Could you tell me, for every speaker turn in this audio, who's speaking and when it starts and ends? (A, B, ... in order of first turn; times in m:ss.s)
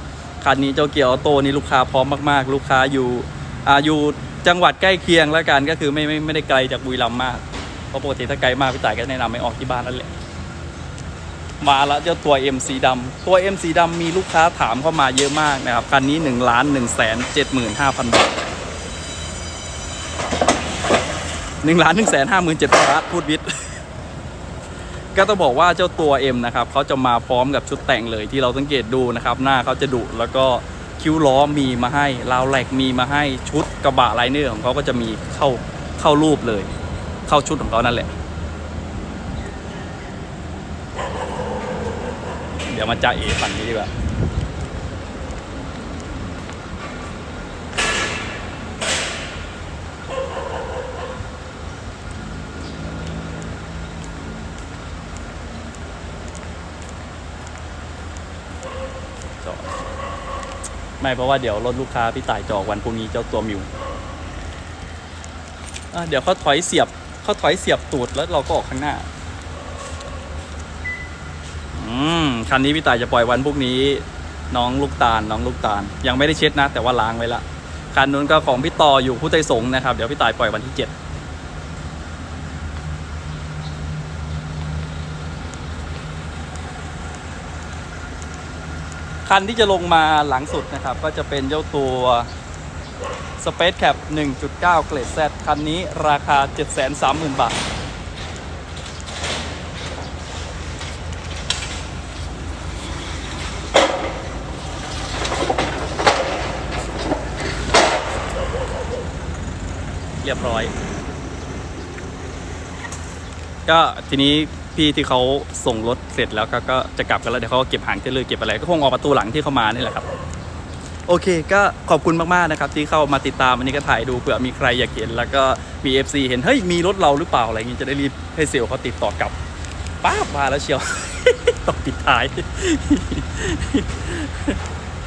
0:00.4-0:10.1 A
0:11.6-0:18.4 A
0:21.6-0:23.5 A
0:25.1-0:36.7 A
0:37.3-0:38.1 A
0:42.7-0:43.9 A
0:59.4-0:59.7 A
1:01.0-1:03.7 A
1:05.9-1:09.1 A
1:11.7-1:20.9 A
1:29.2-1:32.3 A
1:33.4-1:37.6 A
1:50.2-1:50.7 A
1:53.6-2:00.1 A
2:01.1-2:09.4 A
2:10.0-2:14.6 A